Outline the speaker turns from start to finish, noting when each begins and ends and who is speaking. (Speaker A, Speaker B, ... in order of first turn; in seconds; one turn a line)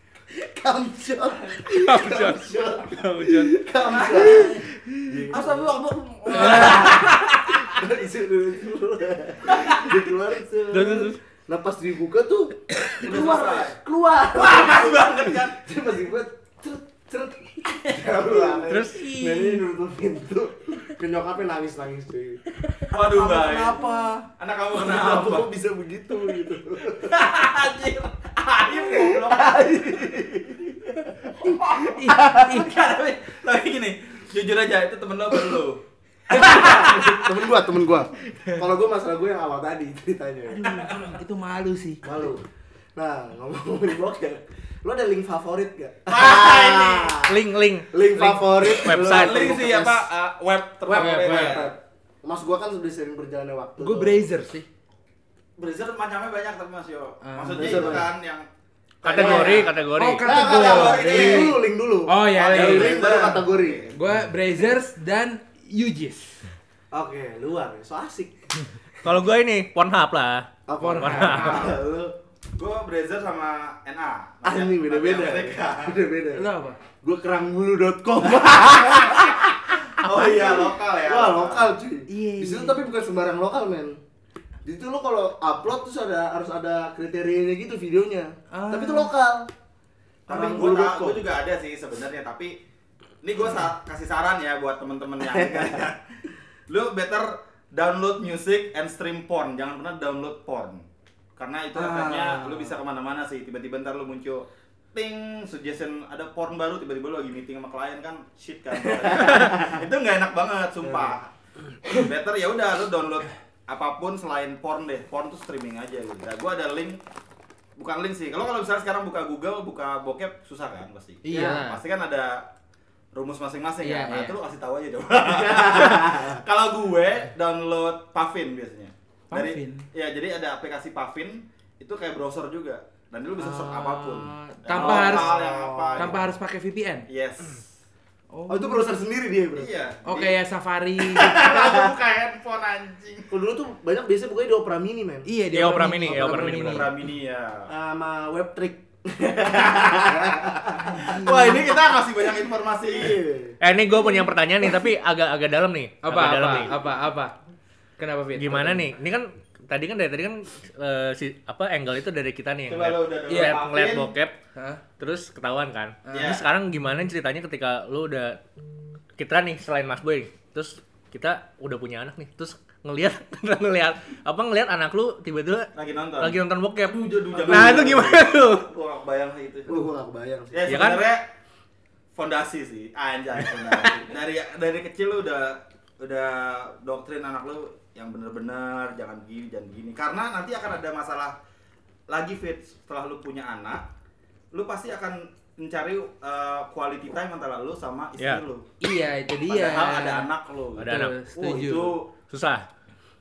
Speaker A: 0.3-5.7
Speaker B: 1.7-3.6
Speaker C: 3.8-4.6
Speaker D: 4.1-4.4
Speaker C: 5.3-7.3
Speaker A: 6.3-27.2
Speaker D: 6.3-7.0
Speaker C: 9.5-9.8
Speaker B: 10.7-11.2
Speaker C: 13.0-13.8
Speaker C: 14.3-15.6
Speaker C: 17.8-18.7
Speaker B: 18.7-19.6
Speaker C: 22.9-25.5
Speaker C: 26.9-30.2
Speaker A: 28.8-32.6
Speaker C: 31.4-31.9
Speaker D: 31.7-32.8
Speaker C: 32.5-37.1
Speaker A: 36.3-40.7
Speaker D: 36.5-37.0
Speaker D: 38.3-38.6
Speaker D: 40.5-42.0
Speaker C: 40.7-41.1
Speaker A: 42.0-42.4
Speaker A: 43.0-47.4
Speaker C: 46.1-47.2
Speaker B: 47.2-49.5
Speaker A: 47.9-50.1
Speaker C: 48.9-51.7
Speaker A: 50.9-54.2
Speaker D: 50.9-51.7
Speaker D: 53.8-54.6
Speaker C: 55.6-58.5
Speaker D: 57.2-58.0
Speaker A: 57.5-58.1
Speaker B: 59.0-60.3
Speaker A: 59.0-59.7
Speaker C: 59.0-59.7
Speaker D: 59.2-63.4
Speaker A: 60.2-63.9
Speaker C: 60.4-61.6
Speaker C: 62.3-64.0
Speaker D: 63.9-66.4
Speaker A: 66.9-68.3
Speaker B: 69.0-71.6
Speaker A: 70.7-72.1
Speaker D: 70.8-71.7
Speaker C: 71.4-71.7
Speaker C: 72.5-76.0
Speaker A: 74.4-76.5
Speaker D: 76.3-76.8
Speaker A: 77.0-79.5
Speaker C: 80.0-81.7
Speaker A: 80.1-84.0
Speaker D: 82.1-82.8
Speaker A: 84.6-89.5
Speaker D: 88.5-89.1
Speaker C: 90.3-92.6
Speaker A: 90.3-91.2
Speaker C: 93.2-96.0
Speaker C: 96.7-100.8
Speaker C: 101.4-111.3
Speaker A: 101.7-102.7
Speaker A: 108.8-109.8
Speaker A: 110.8-111.1
Speaker C: 111.9-117.0
Speaker C: 117.8-122.5
Speaker D: 121.2-121.8
Speaker A: 121.3-121.6
Speaker C: 123.1-136.3
Speaker D: 123.8-124.4
Speaker A: 125.3-126.4
Speaker D: 129.3-129.8
Speaker D: 133.4-135.4
Speaker A: 134.7-136.2
Speaker D: 135.9-137.1
Speaker C: 137.1-137.7
Speaker D: 138.3-138.9
Speaker A: 138.5-139.7
Speaker C: 139.5-140.4
Speaker D: 140.0-141.4
Speaker C: 141.0-143.3
Speaker A: 141.4-141.8
Speaker A: 143.3-145.3
Speaker D: 145.2-146.9
Speaker B: 145.5-146.9
Speaker A: 146.1-146.4
Speaker C: 146.5-147.7
Speaker A: 147.7-151.2
Speaker C: 149.8-150.1
Speaker C: 151.0-153.2
Speaker D: 151.0-151.6
Speaker A: 152.9-153.6
Speaker B: 153.6-156.8
Speaker D: 156.0-157.3
Speaker D: 158.0-158.9
Speaker B: 158.3-164.3
Speaker C: 162.7-164.1
Speaker D: 163.3-163.6
Speaker D: 164.5-164.8
Speaker B: 165.0-168.4
Speaker D: 166.1-166.3
Speaker C: 166.1-166.4
Speaker B: 169.2-178.7
Speaker C: 175.7-179.8
Speaker A: 177.3-178.2
Speaker A: 179.7-180.7
Speaker C: 180.5-181.3
Speaker B: 180.7-181.1
Speaker C: 182.1-191.3
Speaker C: 192.1-193.8
Speaker C: 194.5-198.7
Speaker D: 198.8-200.3
Speaker C: 199.5-202.1
Speaker B: 200.8-201.2
Speaker D: 200.8-202.0
Speaker B: 202.3-202.7